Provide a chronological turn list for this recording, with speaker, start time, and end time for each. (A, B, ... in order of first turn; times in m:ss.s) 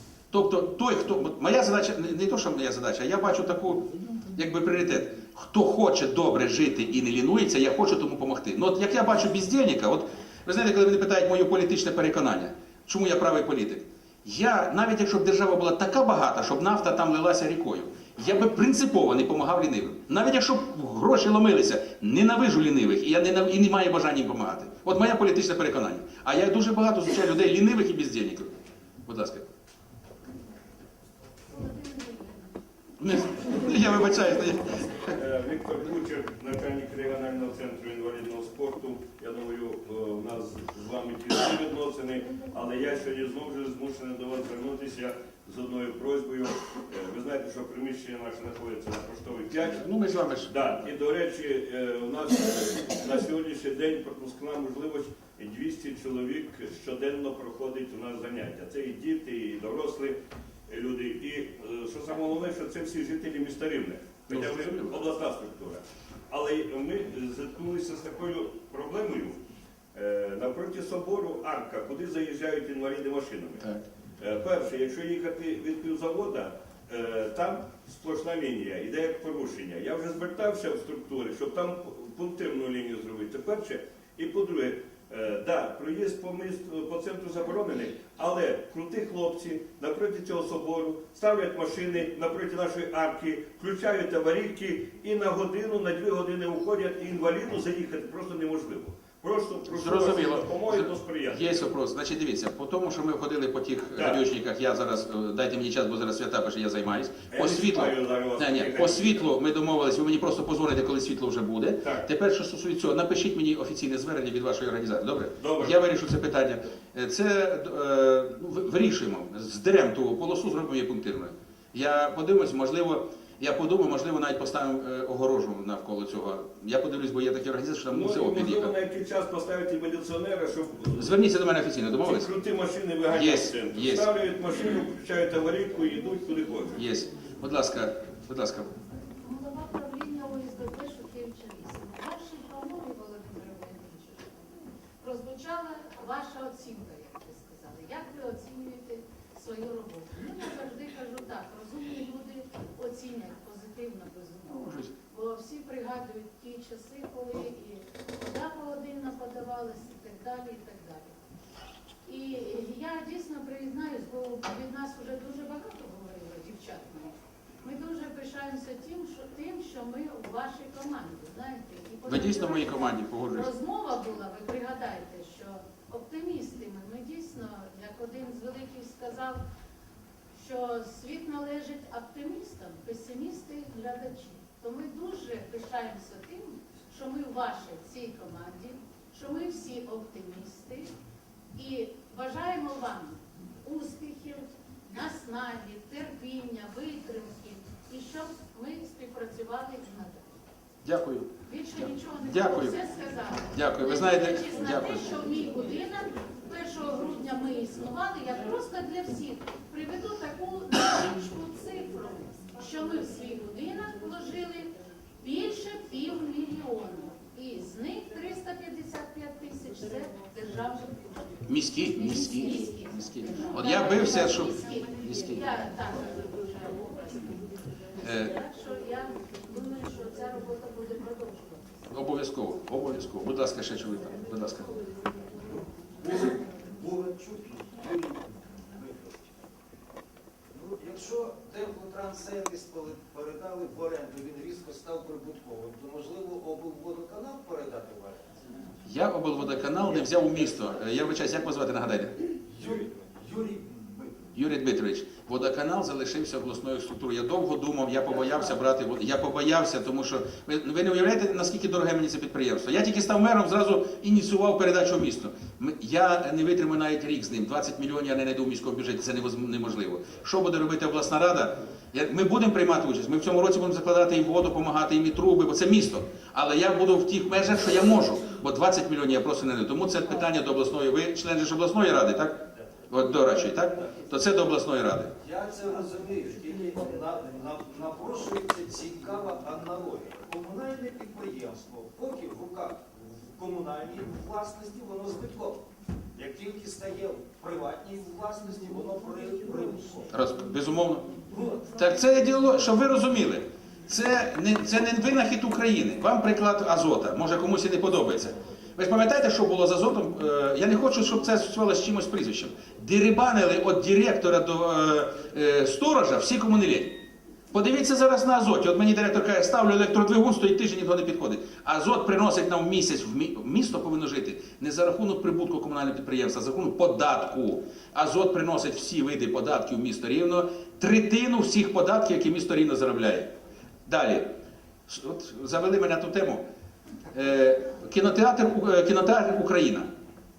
0:00.3-0:28.5 A
0:29.0-0:29.5 A
0:31.5-0:32.5 B
0:33.0-0:35.1 A
0:35.1-0:49.8 C
0:49.7-0:50.5 A
0:50.5-1:00.2 C
1:00.7-1:09.4 C
1:04.3-1:05.1 A
1:09.9-1:13.6 C
1:14.2-1:41.6 C
1:39.7-2:08.7 A
1:43.9-1:44.2 C
1:47.3-1:49.3 C
1:51.8-1:52.1 C
1:55.4-1:55.8 C
2:07.9-2:11.1 C
2:11.0-2:12.3 A
2:12.0-2:16.8 C
2:13.1-2:14.1 A
2:16.8-2:18.7 A
2:19.2-2:41.2 B
2:34.5-2:34.9 A
2:42.0-2:59.4 B
2:52.0-2:53.5 A
3:00.4-3:10.9 B
3:11.6-3:20.4 B
3:20.8-3:22.8 A
3:21.4-3:51.9 B
3:23.5-3:25.2 A
3:41.5-3:45.4 A
3:48.0-3:48.3 A
3:51.9-3:54.7 A
3:56.0-3:59.4 D
4:00.5-4:08.3 D
4:08.8-4:12.2 A
4:12.5-4:14.2 D
4:14.3-4:45.1 A
4:45.2-5:00.1 D
5:00.1-5:01.1 A
5:01.3-5:01.7 D
5:01.7-5:33.3 A
5:33.8-5:34.3 A
5:34.9-5:36.4 A
5:37.1-5:39.9 A